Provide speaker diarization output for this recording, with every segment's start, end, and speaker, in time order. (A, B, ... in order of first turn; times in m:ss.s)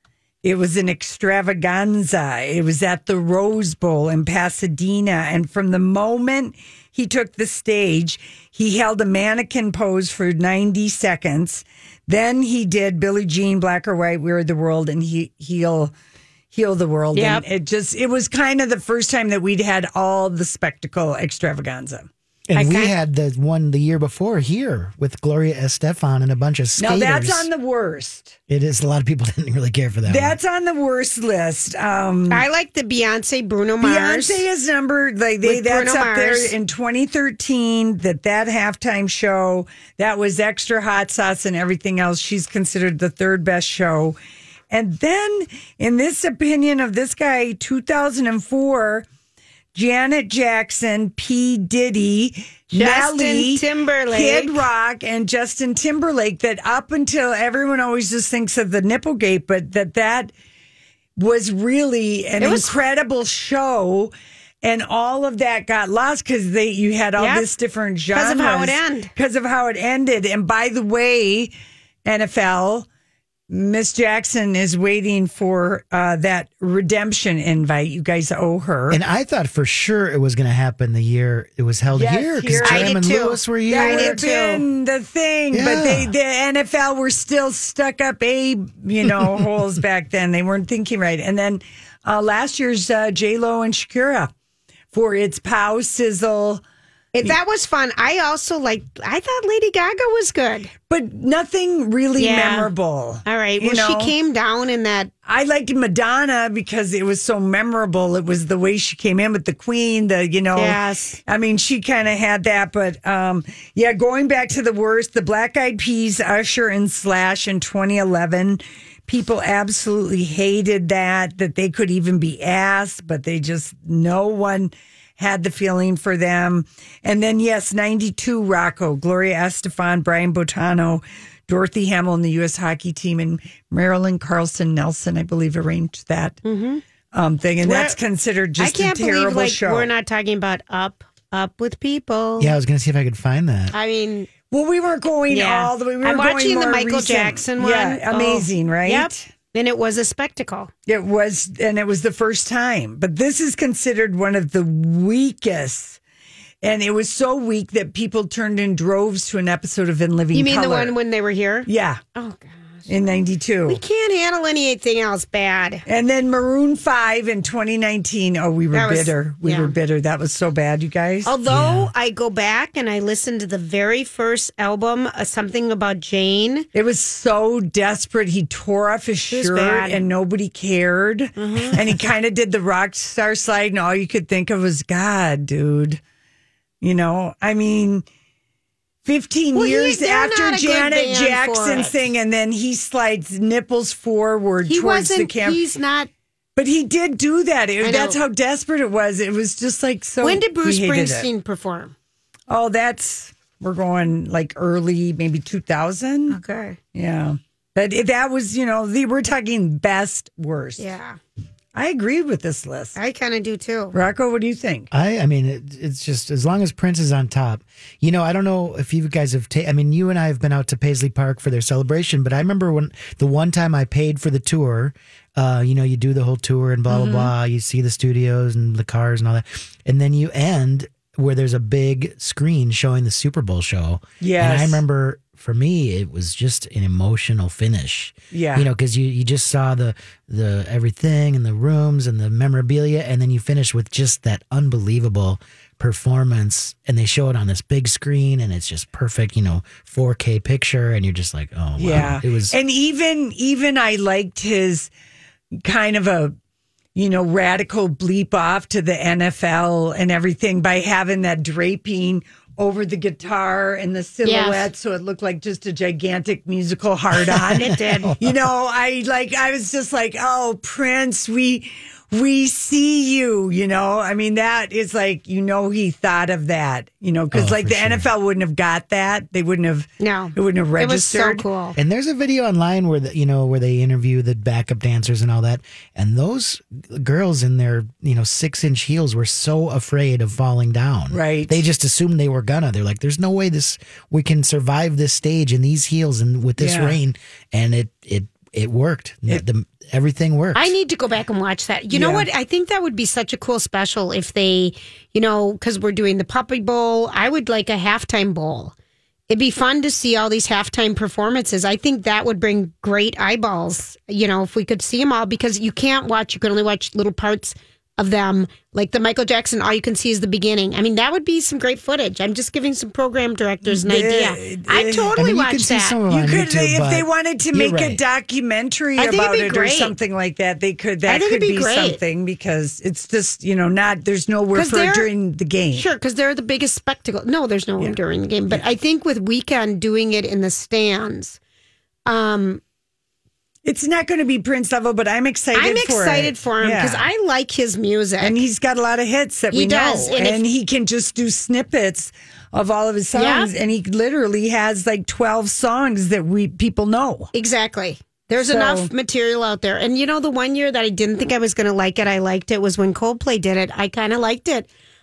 0:00.4-0:15.9 A
0:16.5-0:22.1 A
0:17.1-0:17.4 B
0:22.5-0:27.5 C
0:22.5-0:22.9 B
0:26.8-0:28.4 A
0:28.5-0:30.4 C
0:30.0-0:32.4 A
0:32.3-0:34.4 B
0:33.8-0:44.2 A
0:35.4-0:36.5 B
0:44.7-0:49.0 A
0:49.7-1:00.3 A
0:52.7-0:54.6 B
1:01.2-1:11.5 A
1:02.4-1:02.7 B
1:07.2-1:07.5 B
1:08.1-1:09.1 B
1:12.0-1:12.9 A
1:13.5-1:19.0 A
1:18.9-1:24.2 C
1:21.9-1:22.9 A
1:22.6-1:24.6 B
1:23.7-1:34.3 A
1:25.5-1:26.1 C
1:34.9-1:36.6 A
1:37.1-1:40.7 B
1:40.9-1:44.1 A
1:42.2-1:42.7 B
1:43.2-1:45.1 B
1:45.2-2:16.4 A
1:50.5-1:51.2 B
2:16.4-2:16.8 B
2:17.1-2:19.9 A
2:17.6-2:18.0 B
2:18.6-2:22.6 B
2:22.4-2:23.7 C
2:23.7-2:24.3 B
2:24.5-2:29.2 A
2:25.3-2:30.7 B
2:30.9-2:36.0 A
2:36.6-2:40.9 A
2:40.3-2:42.9 B
2:41.7-2:42.0 A
2:42.9-2:43.8 A
2:43.7-2:45.8 B
2:45.8-2:51.3 A
2:48.7-2:49.7 B
2:51.2-2:56.7 B
2:51.5-2:51.9 C
2:56.7-3:06.0 A
2:59.3-3:00.0 B
3:01.4-3:01.8 B
3:06.8-3:08.0 A
3:09.0-3:15.6 A
3:09.5-3:12.0 B
3:14.6-3:16.1 B
3:16.6-3:21.3 A
3:17.8-3:18.2 B
3:20.2-3:21.9 B
3:22.5-3:26.4 A
3:26.3-3:26.8 B
3:26.9-3:30.8 A
3:30.8-3:31.2 B
3:31.7-3:33.0 A
3:33.0-3:33.9 B
3:33.9-3:34.9 A
3:34.9-4:12.5 C
3:46.9-3:47.3 A
3:54.2-3:54.8 A
3:58.3-3:58.7 A
4:11.8-4:14.9 A
4:15.6-4:16.3 A
4:16.9-4:41.4 A
4:24.2-4:24.7 B
4:27.2-4:28.4 C
4:27.5-4:28.1 B
4:37.3-4:38.1 C
4:40.0-4:41.8 B
4:41.8-5:00.7 C
4:51.1-4:51.6 A
4:56.6-4:57.0 A
5:00.5-5:08.7 B
5:01.9-5:02.2 A
5:09.3-5:26.0 B
5:23.6-5:25.1 A
5:25.2-5:28.0 C
5:26.1-5:35.9 A
5:29.0-5:30.0 B
5:31.0-5:32.0 B
5:34.5-5:35.1 B
5:35.7-5:41.4 B
5:42.0-5:42.6 B
5:43.6-5:47.1 A
5:45.5-5:48.4 B
5:48.2-5:57.3 A
5:49.5-5:50.4 B
5:53.1-5:53.5 B
5:57.3-6:04.7 B
5:58.4-5:58.9 A